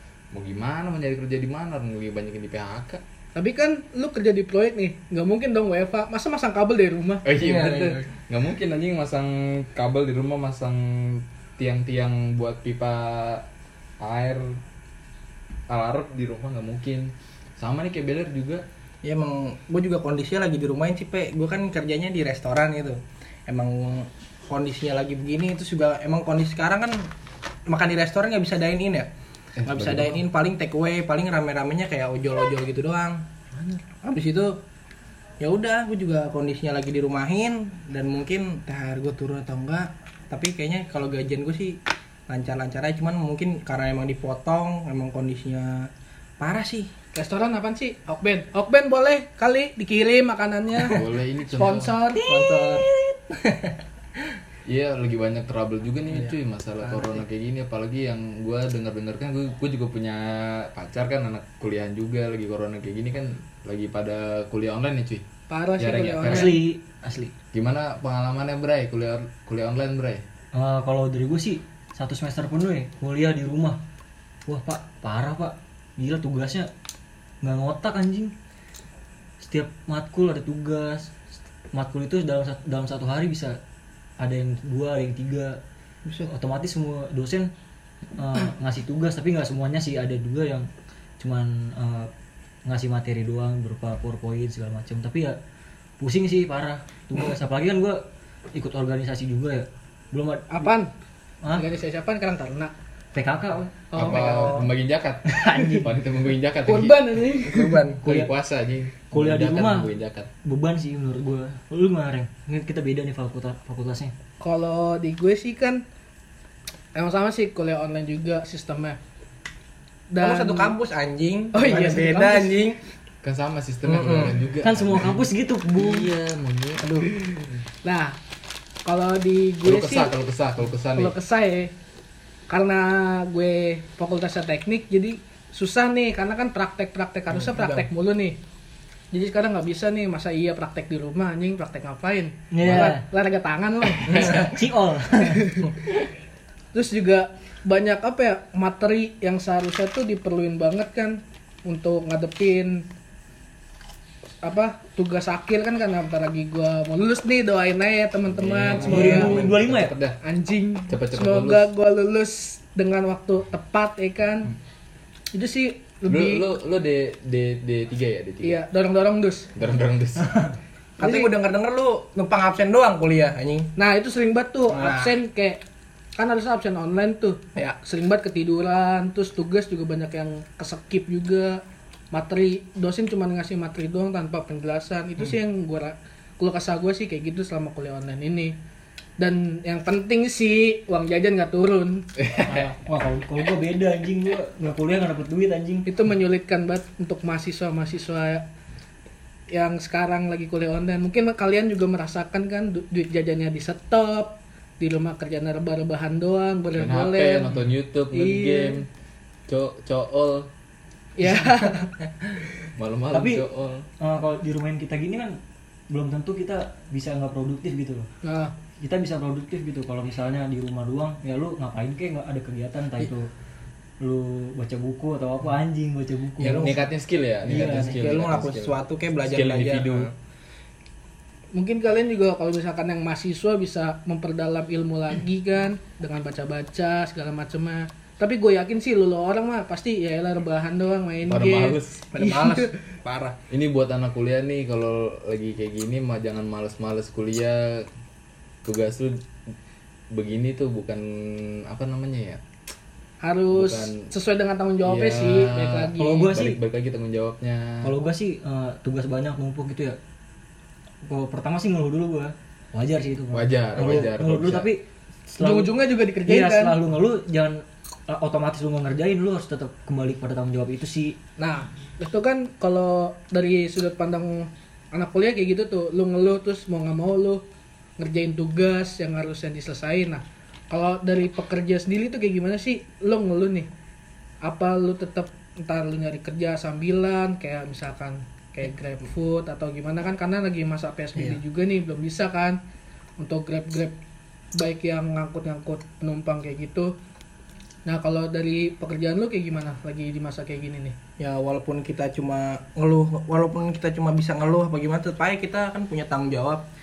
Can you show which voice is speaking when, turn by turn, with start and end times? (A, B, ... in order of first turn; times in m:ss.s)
0:00.3-0:03.0 A
0:03.4-0:07.2 B
0:07.2-0:13.5 A
0:07.4-0:08.1 C
0:14.0-0:14.6 A
0:15.7-0:18.6 A
0:19.0-0:27.1 C
0:27.7-0:29.1 C
0:29.6-0:30.2 A
0:29.6-0:33.3 C
0:33.9-0:34.6 C
0:35.4-0:46.9 C
0:47.1-0:52.5 B
0:50.9-0:52.0 A
0:52.2-0:53.8 C
0:54.7-1:05.2 A
0:56.1-0:57.2 C
1:05.5-1:06.6 B
1:05.8-1:06.6 A
1:06.2-1:07.3 D
1:07.5-1:10.2 A
1:10.5-1:13.8 D
1:14.5-1:16.7 D
1:17.4-1:18.3 D
1:19.4-1:21.2 D
1:21.7-1:23.6 D
1:24.2-1:25.6 D
1:26.1-1:26.3 C
1:26.3-1:27.5 D
1:28.2-1:30.7 D
1:31.2-1:32.1 D
1:32.6-1:35.4 D
1:36.0-1:40.7 D
1:40.5-1:40.9 B
1:41.5-1:42.7 B
1:43.1-1:43.9 D
1:43.9-1:44.6 B
1:44.0-1:47.2 A
1:44.0-1:44.7 C
1:45.3-1:45.9 D
1:46.7-1:47.8 B
1:47.4-1:48.0 C
1:48.0-1:50.3 A
1:48.0-1:48.3 D
1:49.1-1:49.9 D
1:50.4-1:54.1 D
1:54.4-1:55.8 B
1:57.0-1:59.0 B
2:00.1-2:00.8 B
2:00.2-2:02.8 C
2:01.5-2:02.6 B
2:03.2-2:07.5 A
2:03.9-2:04.4 C
2:04.6-2:06.1 D
2:06.8-2:07.1 C
2:07.8-2:08.2 B
2:08.8-2:10.1 B
2:09.6-2:11.2 A
2:11.0-2:11.7 B
2:12.5-2:18.4 B
2:17.3-2:17.9 C
2:19.1-2:24.6 B
2:22.5-2:23.1 D
2:24.0-2:25.5 D
2:25.2-2:25.8 B
2:26.7-2:32.9 B
2:34.4-2:39.4 B
2:38.3-2:40.2 A
2:38.8-2:39.9 D
2:40.2-2:44.5 B
2:40.9-2:41.7 A
2:45.3-2:46.4 B
2:46.1-2:48.6 A
2:48.4-2:49.5 B
2:49.6-2:50.5 A
2:51.0-2:53.7 C
2:51.0-2:51.3 B
2:53.8-2:55.6 B
2:54.7-2:55.2 C
2:56.2-3:08.6 B
3:09.2-3:12.3 B
3:12.2-3:12.6 A
3:12.4-3:15.9 D
3:15.9-3:18.5 B
3:19.5-3:27.6 B
3:26.8-3:28.9 A
3:28.1-3:28.8 B
3:29.5-3:30.5 A
3:31.2-3:31.9 B
3:32.8-3:33.9 A
3:33.1-3:33.4 D
3:34.0-3:38.1 D
3:38.2-3:38.6 B
3:38.8-3:43.3 D
3:44.0-3:46.8 D
3:46.4-3:46.9 C
3:46.4-3:50.1 A
3:47.5-3:48.0 D
3:47.5-3:50.1 C
3:51.5-4:02.7 B
4:01.2-4:02.1 A
4:02.1-4:03.4 C
4:03.5-4:07.9 A
4:08.6-4:09.2 A
4:10.1-4:12.4 A
4:13.2-4:16.3 B
4:13.5-4:14.1 A
4:14.8-4:17.9 A
4:16.0-4:16.6 D
4:17.8-4:20.0 D
4:21.0-4:31.2 D
4:23.3-4:24.7 A
4:23.8-4:24.0 C
4:25.4-4:26.8 B
4:31.4-4:37.4 B
4:38.0-4:43.7 B
4:44.4-4:52.6 B
4:53.2-4:54.0 B
4:54.6-4:56.9 B
4:57.9-5:01.0 B
5:01.2-5:06.6 C